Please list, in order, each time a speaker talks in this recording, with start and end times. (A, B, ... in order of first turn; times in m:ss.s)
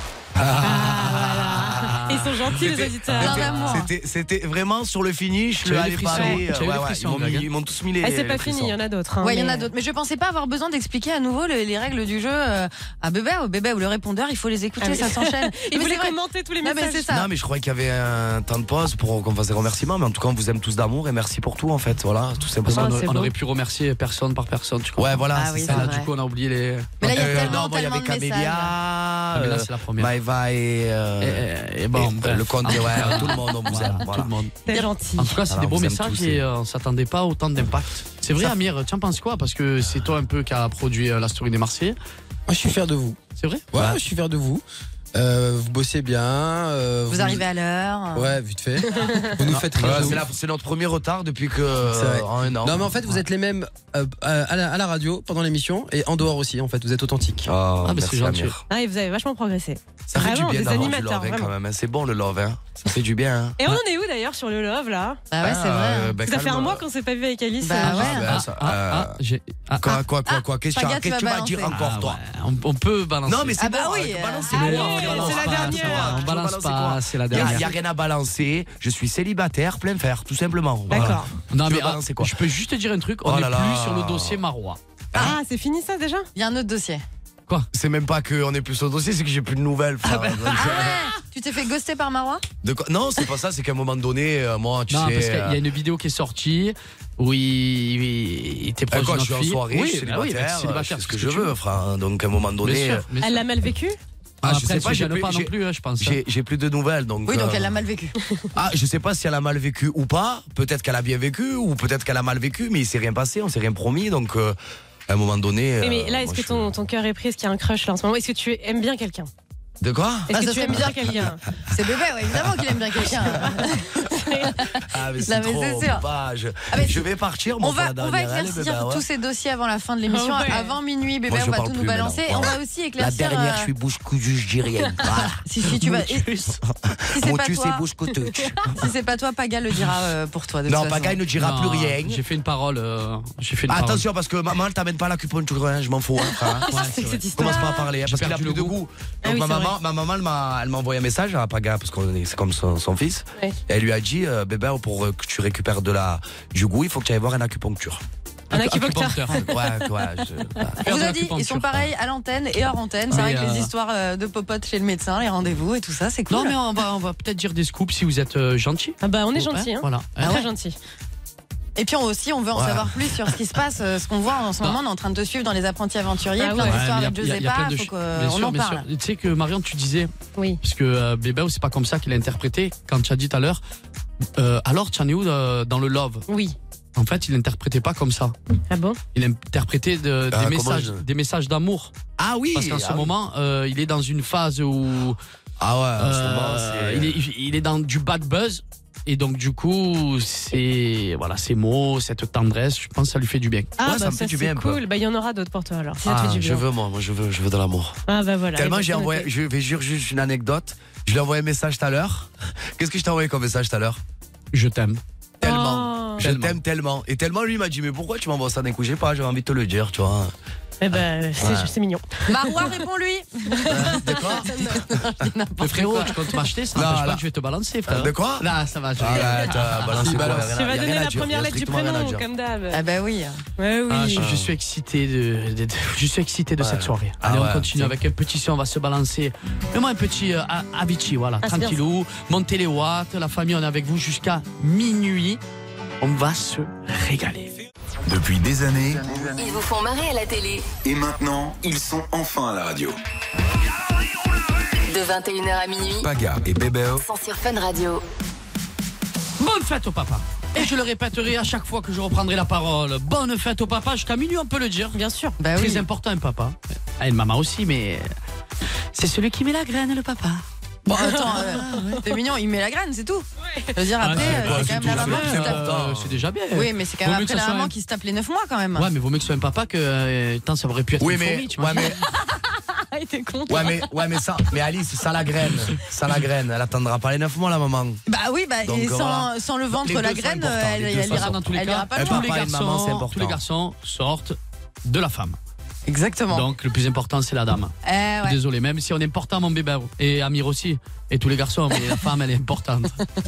0:00.4-0:00.9 A
0:00.6-0:03.8 B
0:02.5-0:08.8 A
0:03.2-0:03.9 C
0:05.6-0:07.5 D
0:08.0-0:09.7 B
0:09.2-0:17.3 C
0:14.8-0:17.1 B
0:17.1-0:23.0 A
0:22.7-0:27.6 D
0:22.8-0:23.2 B
0:25.0-0:26.0 A
0:25.4-0:26.1 C
0:27.0-0:28.8 C
0:27.0-0:34.3 A
0:29.4-0:30.1 D
0:31.2-0:42.0 D
0:34.6-0:35.3 B
0:35.5-0:36.4 A
0:42.5-0:43.2 E
0:43.4-0:43.7 D
0:43.7-0:44.6 E
0:43.7-0:44.0 A
0:45.1-0:47.4 E
0:47.1-0:48.4 C
0:48.1-0:50.2 E
0:48.9-0:49.3 B
0:49.5-0:50.1 D
0:49.8-0:53.0 A
0:51.9-0:57.5 E
0:57.4-0:58.6 A
0:57.8-0:58.5 D
0:58.7-1:01.5 B
1:00.1-1:03.6 A
1:03.6-1:05.2 B
1:05.3-1:06.1 C
1:05.4-1:06.8 A
1:06.2-1:08.2 B
1:07.6-1:08.3 C
1:07.8-1:10.0 D
1:07.8-1:09.2 A
1:09.8-1:12.2 A
1:10.3-1:11.8 C
1:11.7-1:13.6 D
1:13.2-1:22.3 A
1:13.6-1:15.1 C
1:14.5-1:17.7 D
1:14.5-1:16.2 B
1:20.9-1:21.3 B
1:21.5-1:24.8 D
1:23.2-1:24.4 A
1:25.1-1:26.3 B
1:26.4-1:27.0 C
1:27.7-1:31.1 A
1:30.1-1:30.5 D
1:30.5-1:32.4 C
1:32.6-1:35.6 A
1:34.9-1:41.5 D
1:38.9-1:43.0 A
1:42.6-1:43.4 D
1:43.2-1:44.0 B
1:44.4-1:46.2 D
1:44.4-1:47.7 A
1:47.3-1:48.2 C
1:48.5-1:54.6 A
1:55.1-1:56.7 A
1:55.8-1:59.3 B
1:59.8-2:01.2 A
2:00.3-2:01.4 B
2:00.3-2:00.8 C
2:01.7-2:06.0 C
2:03.4-2:04.5 B
2:04.9-2:09.0 A
2:06.7-2:07.0 C
2:07.6-2:13.7 C
2:10.1-2:10.8 B
2:11.3-2:15.4 A
2:15.4-2:16.3 C
2:15.7-2:16.6 D
2:16.7-2:18.7 A
2:17.1-2:17.9 C
2:18.7-2:21.2 C
2:20.7-2:22.2 A
2:21.4-2:24.0 D
2:23.7-2:26.7 A
2:26.4-2:27.9 B
2:26.7-2:28.8 D
2:27.4-2:38.0 A
2:29.2-2:29.7 B
2:38.5-2:39.4 D
2:38.5-2:39.5 B
2:39.4-2:40.8 A
2:40.8-2:41.9 D
2:40.8-2:46.6 C
2:43.1-2:43.7 D
2:46.3-2:50.3 D
2:49.0-2:50.8 B
2:51.8-2:58.8 C
2:52.5-2:53.0 A
2:56.4-2:56.8 B
2:56.6-3:00.1 D
3:00.6-3:03.6 D
3:04.4-3:06.2 D
3:06.3-3:06.5 B
3:07.0-3:08.4 D
3:08.7-3:09.0 B
3:09.1-3:11.9 D
3:10.3-3:11.0 A
3:12.2-3:13.1 A
3:12.5-3:15.2 D
3:15.6-3:17.1 A
3:16.0-3:23.7 D
3:23.8-3:26.6 B
3:23.8-3:24.8 A
3:26.0-3:28.0 A
3:28.1-3:29.3 B
3:28.5-3:34.0 A
3:34.5-3:35.0 D
3:35.4-3:36.2 B
3:35.4-3:40.3 A
3:36.2-3:36.6 D
3:40.8-3:42.8 B
3:40.9-3:41.7 A
3:42.3-3:44.0 C
3:43.7-3:45.0 A
3:44.6-3:46.2 C
3:45.6-3:50.5 D
3:46.8-3:47.2 A
3:47.9-3:52.2 A
3:50.2-3:52.8 B
3:52.7-3:53.4 C
3:53.6-3:54.3 B
3:53.9-4:05.4 D
3:54.1-3:54.5 A
3:56.6-3:58.0 A
4:01.4-4:01.8 B
4:06.0-4:07.5 D
4:08.1-4:09.4 F
4:09.4-4:10.7 G
4:10.8-4:13.0 F
4:14.9-4:16.1 G
4:16.0-4:17.0 F
4:17.0-4:18.0 G
4:19.4-4:25.0 D
4:24.9-4:25.4 B
4:25.4-4:25.8 C
4:25.5-4:28.1 D
4:29.0-4:30.4 D
4:30.9-4:35.6 C
4:31.0-4:31.7 B
4:31.2-4:32.0 D
4:34.0-4:37.7 D
4:34.1-4:36.2 A
4:36.5-4:38.9 C
4:38.8-4:41.9 D
4:41.0-4:42.0 A
4:42.9-4:43.9 B
4:43.5-4:48.0 A
4:48.1-4:52.3 C
4:48.6-4:53.4 A
4:51.0-4:55.4 D
4:55.9-4:56.5 C
4:56.3-5:03.0 D
4:57.8-4:58.4 C